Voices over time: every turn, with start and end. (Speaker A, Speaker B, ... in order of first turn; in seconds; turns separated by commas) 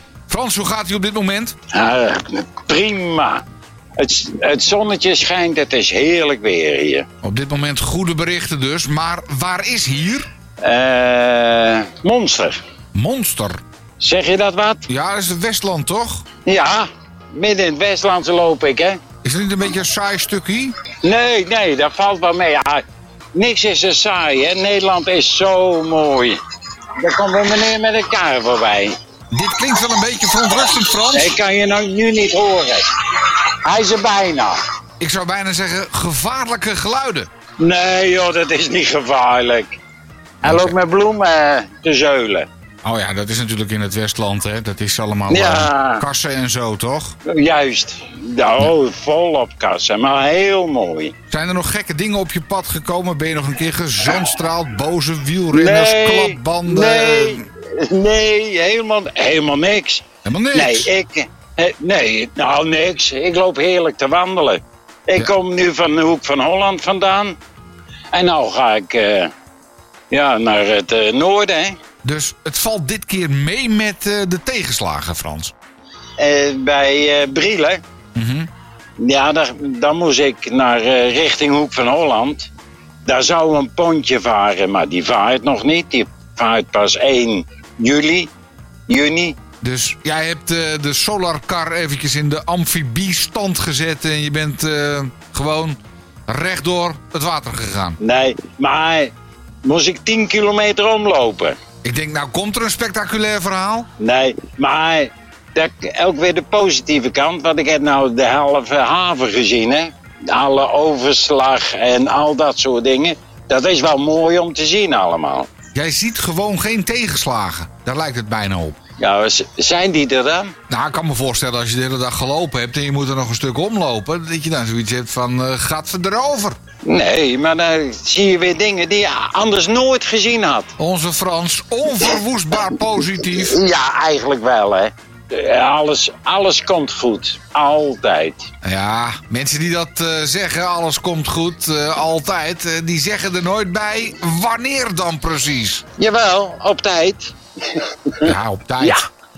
Speaker A: 0.3-1.6, Speaker B: 1.7-3.4, Speaker B: 4.0-7.0, Speaker A: 7.2-10.3, Speaker B: 10.6-12.6, Speaker A: 12.9-13.6, Speaker B: 14.0-14.8, Speaker A: 14.9-16.2, Speaker B: 16.4-19.0, Speaker A: 19.2-20.8, Speaker B: 21.0-22.8, Speaker B: 23.3-26.4, Speaker B: 27.0-28.9, Speaker A: 29.3-31.4, Speaker B: 31.1-34.6, Speaker A: 35.0-37.3, Speaker B: 37.6-39.8, Speaker B: 40.4-42.5, Speaker A: 40.4-40.7, Speaker A: 42.8-47.2, Speaker B: 45.3-46.0, Speaker B: 47.2-51.1, Speaker A: 51.3-57.4, Speaker B: 55.5-67.3, Speaker A: 60.2-60.9, Speaker B: 68.1-69.3, Speaker B: 70.1-71.8, Speaker A: 72.0-75.5, Speaker B: 76.2-77.8, Speaker A: 78.1-78.5, Speaker B: 79.0-82.5, Speaker B: 83.0-88.3, Speaker B: 88.9-89.4, Speaker A: 89.6-98.0, Speaker B: 98.0-99.1, Speaker B: 99.6-101.6, Speaker A: 101.8-103.9, Speaker B: 104.0-115.5, Speaker A: 115.7-118.8, Speaker B: 119.0-120.5, Speaker A: 120.7-126.6, Speaker B: 126.8-130.7, Speaker A: 130.8-133.6, Speaker B: 133.2-138.5, Speaker A: 138.6-145.8, Speaker B: 146.0-149.0, Speaker A: 148.2-149.0